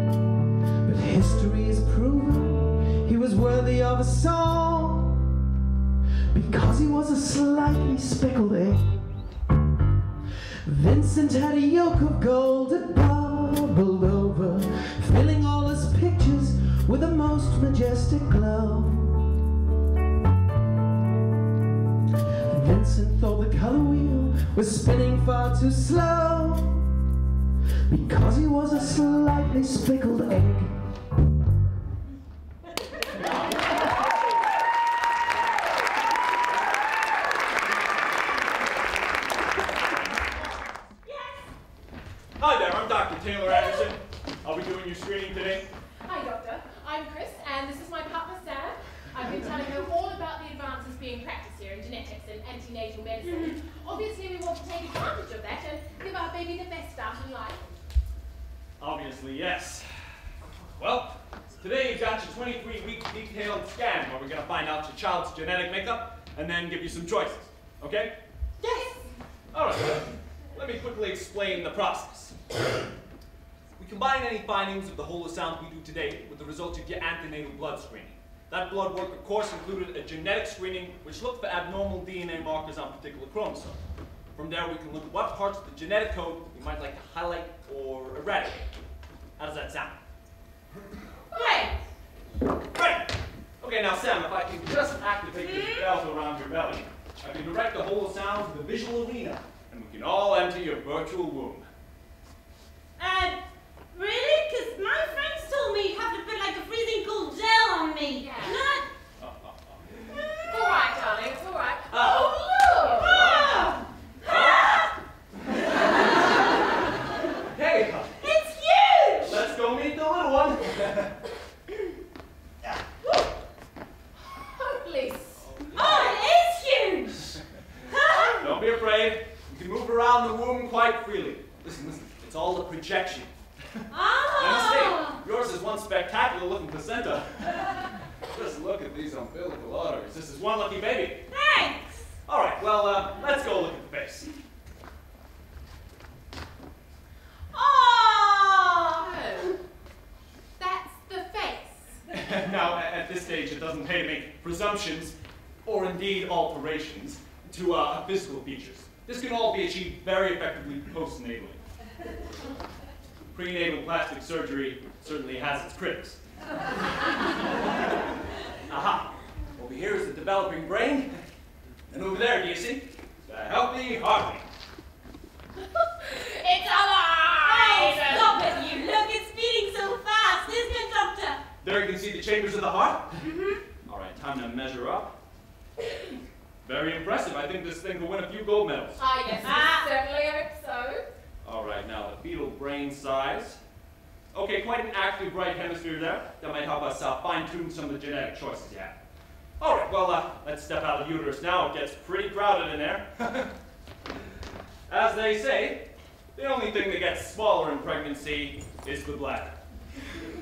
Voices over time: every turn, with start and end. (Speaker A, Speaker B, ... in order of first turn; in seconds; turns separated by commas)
Speaker A: 0.8-5.3, Speaker A: 6.3-9.0, Speaker A: 10.7-19.3, Speaker A: 22.5-27.0, Speaker A: 27.9-30.8, Speaker B: 41.0-41.5, Speaker C: 42.4-45.7, Speaker D: 46.0-57.7, Speaker B: 53.2-53.6, Speaker C: 58.8-59.9, Speaker C: 60.8-68.2, Speaker B: 68.6-69.1, Speaker C: 69.5-72.4, Speaker C: 73.8-83.8, Speaker C: 84.3-88.7, Speaker C: 89.4-90.0, Speaker D: 91.3-91.8, Speaker C: 92.7-101.7, Speaker B: 95.4-95.9, Speaker B: 103.0-103.4, Speaker B: 103.9-108.9, Speaker D: 108.2-108.7, Speaker C: 109.2-110.0, Speaker D: 110.4-113.2, Speaker C: 111.9-112.3, Speaker B: 112.8-115.0, Speaker C: 113.0-113.7, Speaker C: 114.2-114.9, Speaker C: 117.5-118.2, Speaker B: 118.2-119.4, Speaker C: 119.2-121.2, Speaker D: 124.2-126.1, Speaker C: 125.5-126.1, Speaker B: 125.7-128.4, Speaker C: 128.3-133.9, Speaker B: 133.9-135.1, Speaker C: 134.4-141.2, Speaker D: 134.6-135.2, Speaker B: 141.3-142.2, Speaker C: 142.3-144.3, Speaker B: 147.5-149.1, Speaker D: 149.0-149.6, Speaker D: 150.6-152.0, Speaker C: 152.1-161.6, Speaker C: 163.3-166.2, Speaker C: 168.7-171.2, Speaker C: 171.9-174.5, Speaker D: 175.8-178.6, Speaker B: 177.4-181.4, Speaker C: 181.6-183.2, Speaker B: 183.2-183.6, Speaker C: 183.8-185.2, Speaker C: 186.6-189.0, Speaker D: 188.9-191.1, Speaker B: 189.4-189.9, Speaker C: 191.4-193.6, Speaker C: 194.3-199.0, Speaker C: 199.6-203.5, Speaker C: 204.9-209.6